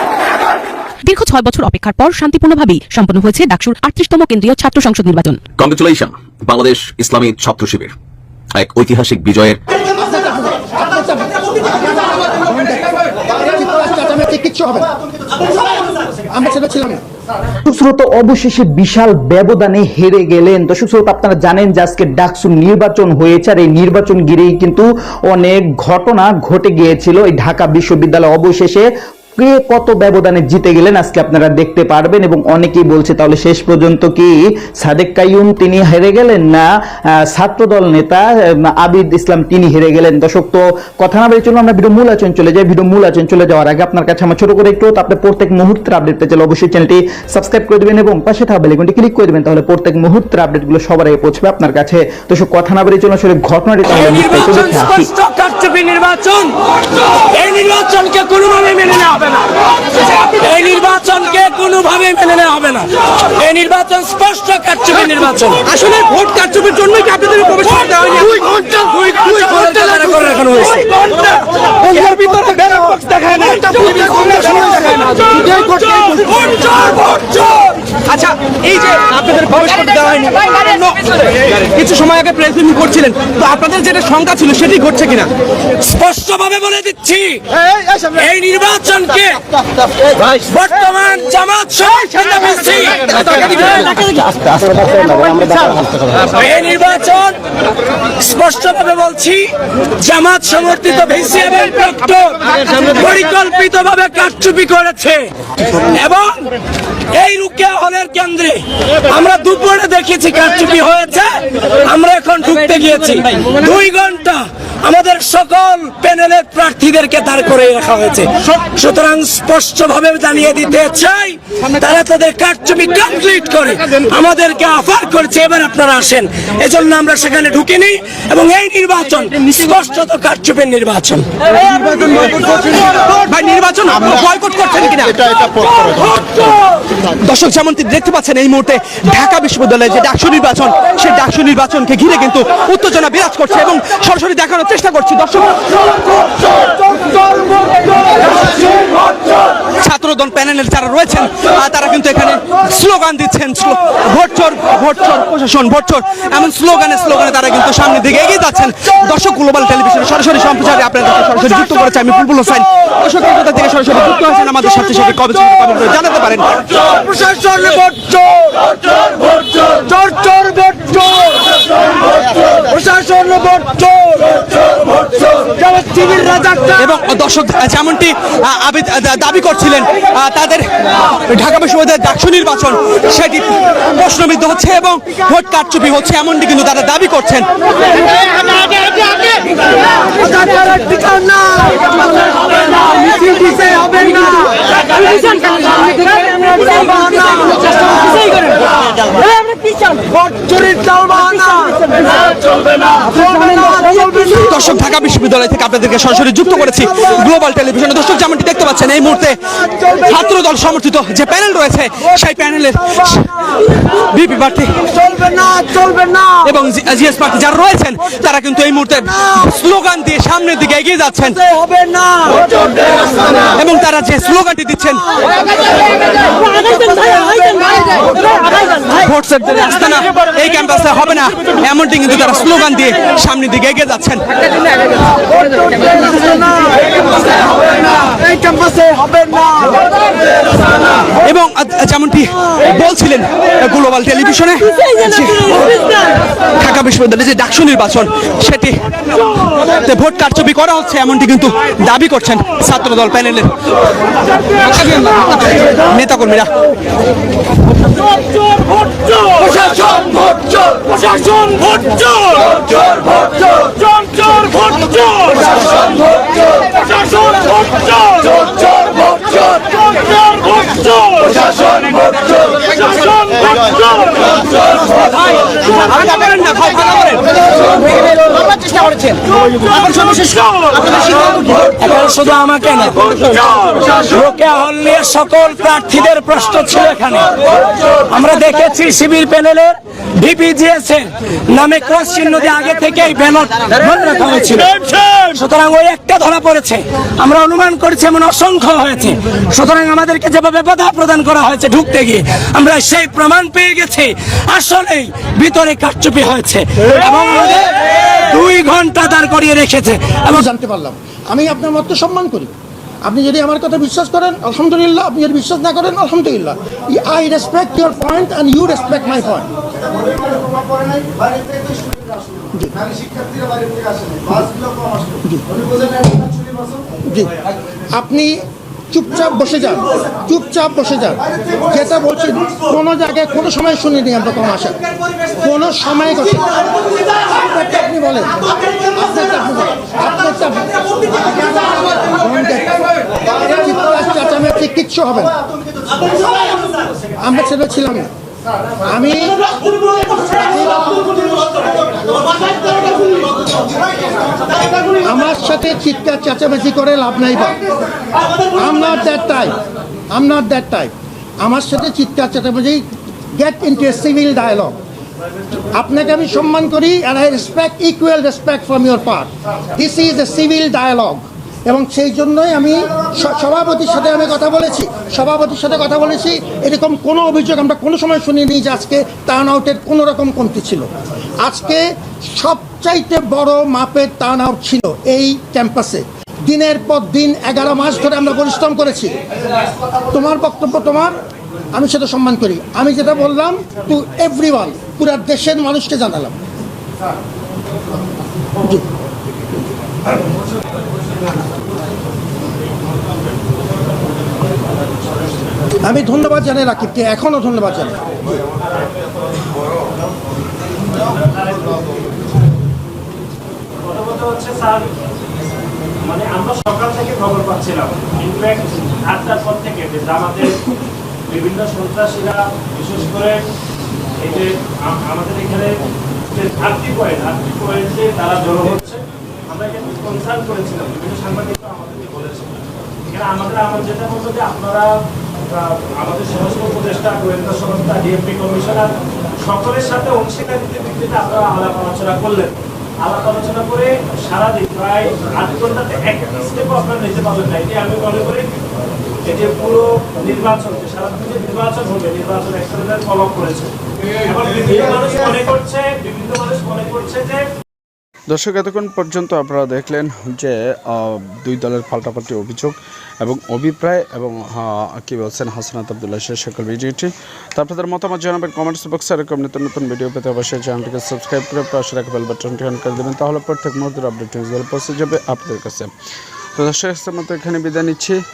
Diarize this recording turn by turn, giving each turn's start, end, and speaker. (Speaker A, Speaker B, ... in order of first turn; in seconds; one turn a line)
Speaker A: 1.0-5.4
Speaker B: 5.5-7.9
Speaker B: 8.5-9.6
Speaker C: 9.8-14.9
Speaker C: 16.2-17.0
Speaker D: 17.6-55.1
Speaker E: 53.9-56.5
Speaker E: 57.3-65.6
Speaker F: 65.6-68.4
Speaker E: 68.2-71.1
Speaker F: 69.8-76.2
Speaker E: 73.5-73.9
Speaker F: 78.1-85.3
Speaker E: 85.8-87.4
Speaker E: 88.1-89.4
Speaker E: 90.2-93.8
Speaker E: 96.3-97.4
Speaker E: 98.2-105.3
Speaker E: 105.9-106.4
Speaker E: 107.1-131.2
Speaker F: 131.8-135.5
Speaker E: 135.6-136.6
Speaker F: 137.2-166.7
Speaker E: 167.1-168.3
Speaker E: 170.1-171.1
Speaker E: 172.8-174.2
Speaker E: 176.0-176.5
Speaker F: 176.7-180.7
Speaker F: 181.3-187.5
Speaker E: 196.6-197.0
Speaker F: 204.3-221.6
Speaker F: 222.2-222.6
Speaker F: 223.4-225.0
Speaker F: 227.9-234.2
Speaker F: 241.2-246.0
Speaker F: 246.6-253.5
Speaker F: 254.4-256.6
Speaker E: 259.8-260.1
Speaker E: 264.2-264.9
Speaker F: 275.3-277.4
Speaker E: 281.7-310.4
Speaker C: 310.3-312.5
Speaker C: 313.0-319.5
Speaker C: 322.5-322.8
Speaker C: 327.0-327.3
Speaker C: 327.9-334.8
Speaker C: 335.3-336.6
Speaker C: 337.2-345.4
Speaker C: 347.1-348.1
Speaker C: 348.8-349.4
Speaker C: 350.2-351.2
Speaker C: 355.0-357.6
Speaker C: 358.5-359.6
Speaker C: 360.1-364.8
Speaker C: 365.7-380.9
Speaker C: 381.4-389.2
Speaker C: 390.1-391.2
Speaker C: 391.7-396.4
Speaker C: 405.8-407.9
Speaker G: 411.1-411.8
Speaker G: 413.7-414.9
Speaker G: 416.0-420.6
Speaker G: 421.3-423.5
Speaker G: 424.2-425.8
Speaker G: 426.3-434.9
Speaker G: 435.5-448.6
Speaker G: 449.2-453.7
Speaker G: 454.3-457.4
Speaker H: 458.3-475.9
Speaker H: 476.6-478.2